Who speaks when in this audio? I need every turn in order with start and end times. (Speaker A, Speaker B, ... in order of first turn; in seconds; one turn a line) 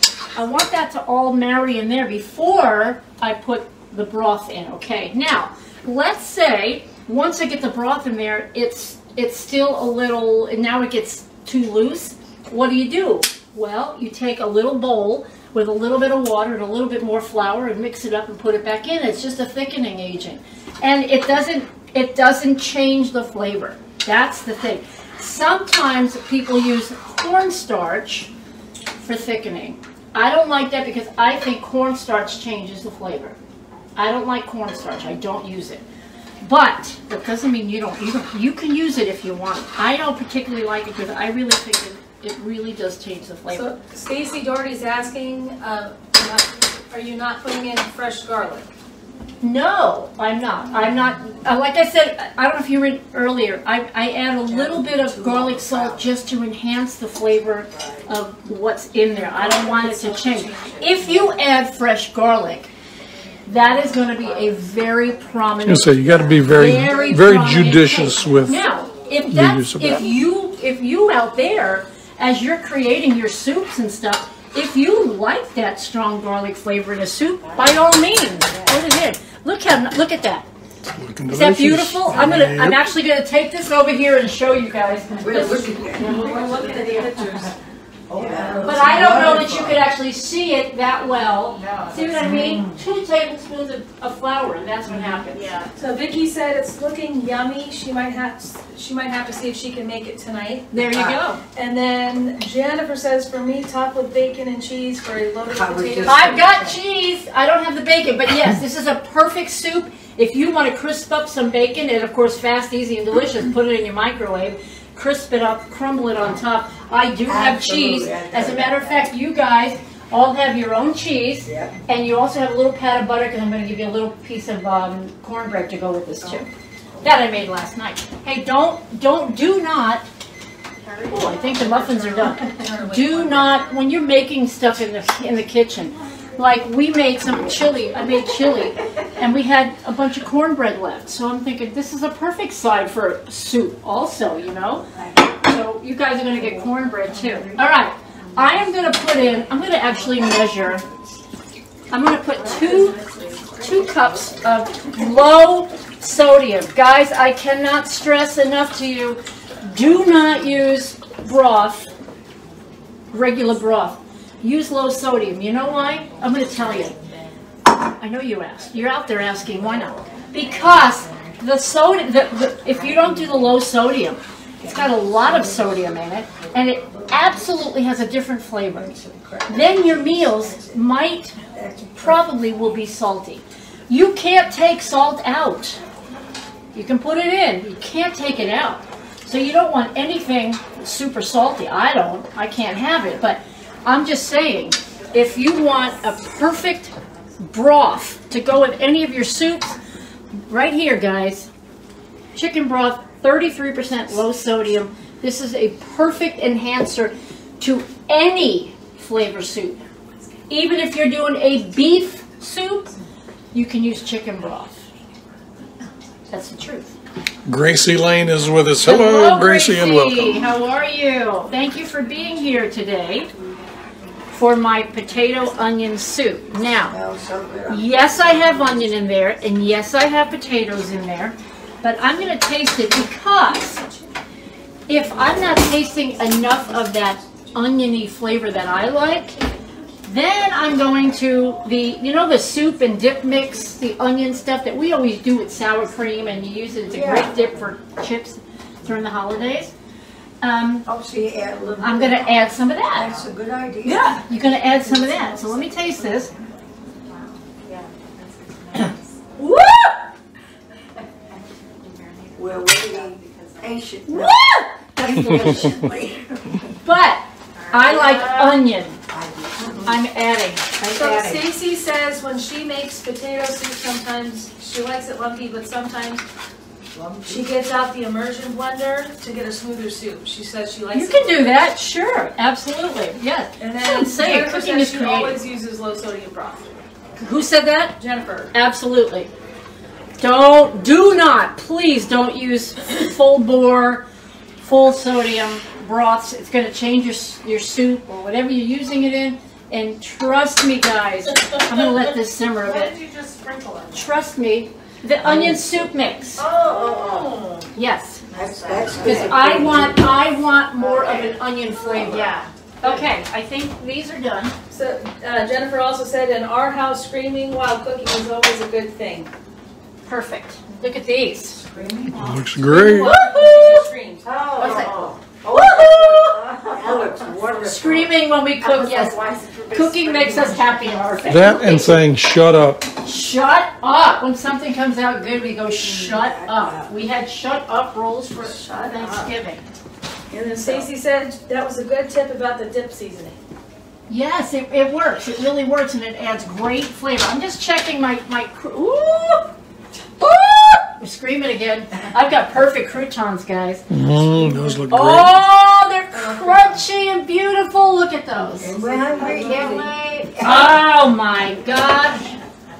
Speaker A: 0.3-28.3
Speaker A: 29.0-33.4
Speaker A: 34.0-35.8
Speaker A: 36.4-43.7
Speaker B: 43.5-48.7
Speaker A: 49.4-62.7
Speaker C: 54.5-56.1
Speaker C: 57.7-58.1
Speaker B: 59.3-61.3
Speaker A: 63.5-80.5
Speaker D: 65.6-68.7
Speaker C: 65.9-68.0
Speaker D: 69.3-70.1
Speaker E: 78.4-78.7
Speaker D: 80.9-82.9
Speaker A: 81.3-87.3
Speaker E: 85.2-85.5
Speaker C: 85.2-86.4
Speaker B: 86.0-87.5
Speaker E: 86.1-86.6
Speaker E: 88.1-89.2
Speaker C: 88.1-89.8
Speaker A: 88.6-95.5
Speaker E: 91.5-92.8
Speaker E: 95.0-95.7
Speaker B: 95.8-100.7
Speaker A: 100.7-101.4
Speaker C: 100.9-101.2
Speaker B: 101.5-106.4
Speaker C: 105.5-106.8
Speaker A: 106.1-126.5
Speaker C: 117.3-119.1
Speaker C: 121.4-121.8
Speaker A: 127.0-130.1
Speaker E: 130.9-131.4
Speaker A: 131.1-144.9
Speaker B: 131.6-133.7
Speaker C: 144.9-145.4
Speaker A: 145.4-150.8
Speaker C: 146.5-147.6
Speaker E: 148.5-149.7
Speaker A: 151.9-153.0
Speaker E: 152.4-154.1
Speaker A: 153.6-161.9
Speaker A: 163.1-167.0
Speaker E: 166.1-167.5
Speaker A: 168.0-181.4
Speaker E: 169.5-171.4
Speaker C: 172.7-173.5
Speaker C: 174.6-177.8
Speaker C: 178.7-182.4
Speaker A: 181.9-185.8
Speaker A: 186.7-199.8
Speaker A: 200.5-201.5
Speaker A: 202.3-209.8
Speaker A: 210.5-212.9
Speaker A: 213.5-214.7
Speaker A: 216.3-216.9
Speaker D: 217.5-220.6
Speaker A: 218.8-223.3
Speaker A: 224.3-227.0
Speaker C: 226.9-228.8
Speaker A: 227.7-233.8
Speaker A: 234.9-239.4
Speaker B: 236.3-237.5
Speaker A: 240.1-249.7
Speaker C: 246.9-247.4
Speaker A: 250.4-250.9
Speaker C: 250.8-255.3
Speaker A: 251.8-253.2
Speaker A: 253.8-256.3
Speaker E: 254.4-259.4
Speaker A: 259.4-260.0
Speaker E: 261.3-263.8
Speaker C: 262.4-264.4
Speaker A: 264.1-265.9
Speaker C: 265.0-266.6
Speaker A: 266.8-269.0
Speaker E: 267.6-268.5
Speaker B: 267.9-268.4
Speaker C: 269.1-270.0
Speaker A: 269.6-271.4
Speaker B: 270.9-276.2
Speaker C: 276.9-277.5
Speaker B: 277.2-281.6
Speaker A: 280.9-285.4
Speaker B: 283.6-286.8
Speaker A: 287.2-287.9
Speaker B: 288.0-288.5
Speaker A: 288.5-289.3
Speaker A: 290.2-294.1
Speaker A: 294.6-302.9
Speaker E: 302.6-304.1
Speaker A: 303.9-306.5
Speaker C: 305.2-305.9
Speaker E: 306.4-307.7
Speaker C: 306.6-307.2
Speaker B: 306.9-307.4
Speaker A: 307.8-308.2
Speaker E: 308.3-309.7
Speaker C: 308.4-310.5
Speaker A: 309.0-314.6
Speaker E: 310.7-311.3
Speaker E: 311.9-313.0
Speaker B: 314.7-319.3
Speaker A: 320.1-321.6
Speaker C: 321.7-322.3
Speaker D: 322.2-323.1
Speaker B: 322.5-324.3
Speaker A: 322.7-323.9
Speaker E: 324.3-325.2
Speaker C: 324.3-328.1
Speaker A: 324.6-329.2
Speaker E: 326.5-327.7
Speaker E: 328.6-330.9
Speaker A: 329.7-332.0
Speaker D: 331.3-332.9
Speaker A: 333.0-339.6
Speaker C: 335.8-336.9
Speaker B: 338.4-339.3
Speaker B: 340.3-343.4
Speaker C: 340.5-340.9
Speaker A: 344.1-349.5
Speaker A: 350.2-354.0
Speaker D: 353.9-355.4
Speaker A: 354.9-359.9
Speaker C: 358.6-360.9
Speaker E: 358.7-359.9
Speaker B: 359.2-359.5
Speaker A: 360.4-362.3